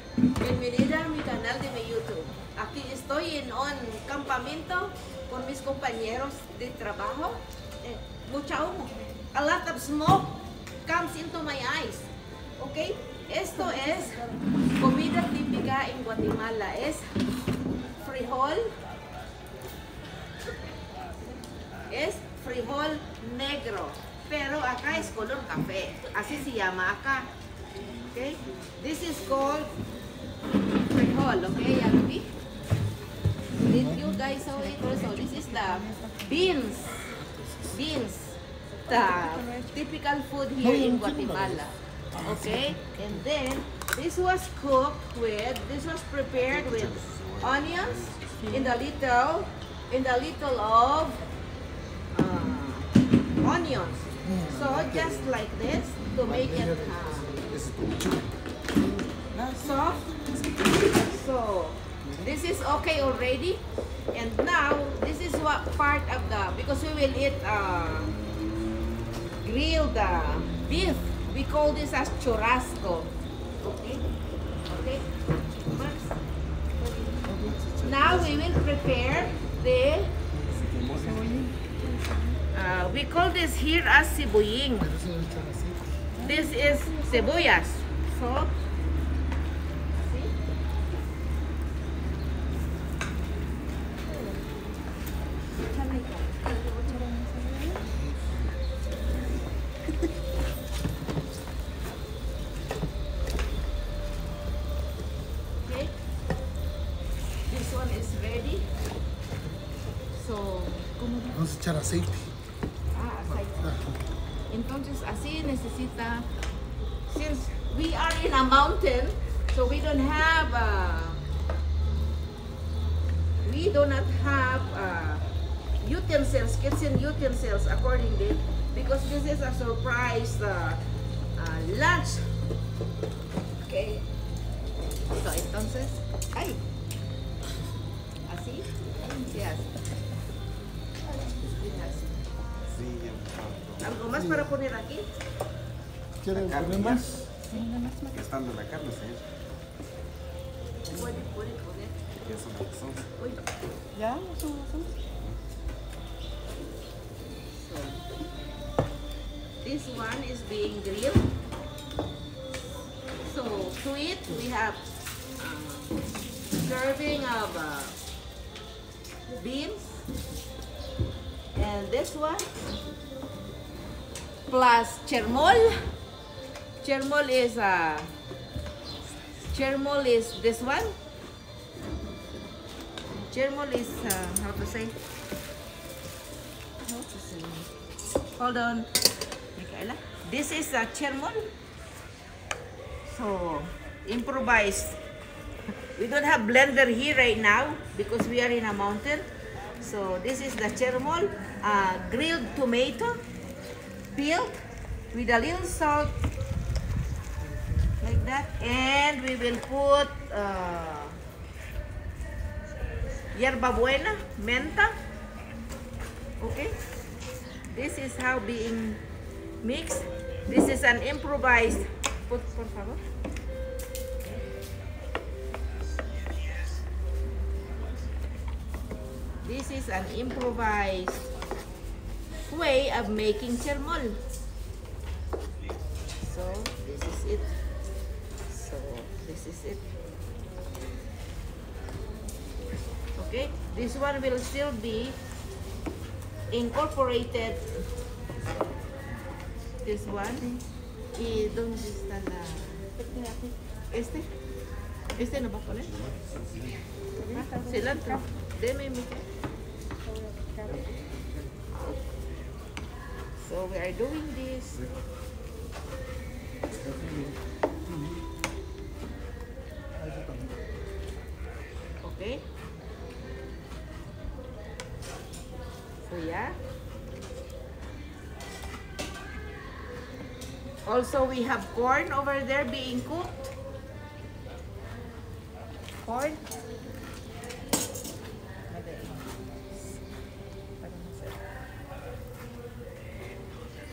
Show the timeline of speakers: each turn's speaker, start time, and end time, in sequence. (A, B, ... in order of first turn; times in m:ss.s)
0:00.4-0:14.2 A
0:14.7-0:17.1 A
0:18.0-0:18.8 A
0:21.9-0:27.3 A
0:28.1-0:29.7 A
0:30.9-0:32.3 A
0:33.5-0:51.2 A
0:35.7-0:36.3 B
0:40.9-0:41.2 C
0:46.5-0:48.4 D
0:52.1-0:57.4 A
0:57.6-0:58.2 D
0:59.2-1:00.2 D
0:59.6-1:00.1 A
1:00.8-1:08.2 A
1:09.4-1:14.0 A
1:14.7-1:16.2 A
1:16.9-1:17.3 B
1:17.3-1:18.5 D
1:17.8-1:20.2 A
1:20.5-1:21.3 D
1:21.0-1:22.4 B
1:22.5-1:25.0 A
1:25.0-1:25.8 C
1:26.2-1:27.1 B
1:26.2-1:28.5 A
1:30.0-1:30.4 A
1:35.7-1:37.1 A
1:36.9-1:37.8 B
1:45.6-1:46.0 A
1:47.5-1:48.7 A
1:50.1-1:51.4 A
1:51.4-1:52.3 C
1:52.9-1:53.8 A
1:54.5-1:56.3 A
1:57.1-2:01.2 A
2:03.4-2:05.3 A
2:05.8-2:10.8 A
2:11.4-2:12.3 A
2:13.6-2:14.1 A
2:15.1-2:16.6 A
2:18.3-2:19.7 A
2:21.4-2:22.2 A
2:22.7-2:23.9 D
2:23.8-2:25.1 A
2:26.2-2:27.2 C
2:26.3-2:27.2 D
2:27.5-2:28.2 B
2:28.1-2:29.3 D
2:30.8-2:32.0 A
2:32.2-2:33.0 D
2:34.0-2:34.9 B
2:37.6-2:38.0 A
2:39.6-2:41.3 A
2:43.2-2:44.8 A
2:45.4-2:46.0 A
2:46.5-2:48.0 A
2:49.4-2:50.0 A
2:51.6-2:52.5 A
2:54.5-2:55.8 A
2:56.8-2:58.1 A
2:59.5-3:01.0 A
3:03.2-3:05.0 A
3:06.8-3:07.7 A
3:08.3-3:08.9 A
3:09.6-3:11.5 A
3:13.1-3:15.0 A
3:16.0-3:19.3 A
3:19.8-3:23.2 A
3:24.1-3:24.6 A
3:25.1-3:26.1 A
3:28.0-3:31.2 A
3:33.3-3:35.0 A
3:36.4-3:36.8 A
3:37.7-3:39.0 A
3:39.6-3:43.0 A
3:49.4-3:51.3 A
3:52.5-3:54.2 A
3:56.2-3:57.6 A
3:58.5-3:59.8 A
4:03.2-4:05.2 A
4:06.5-4:07.8 A
4:08.5-4:08.9 D
4:09.8-4:10.6 A
4:11.2-4:12.9 A
4:13.0-4:13.5 B
4:13.9-4:14.3 A
4:15.2-4:15.9 A
4:16.0-4:16.8 D
4:17.2-4:18.2 B
4:17.3-4:19.2 A
4:20.1-4:20.9 B
4:23.4-4:24.8 A
4:27.0-4:27.3 C
4:30.0-4:30.5 C
4:32.0-4:32.4 A
4:36.0-4:36.6 A
4:40.9-4:43.5 A
4:46.0-4:46.4 A
4:48.7-4:49.3 A
4:50.8-4:51.3 A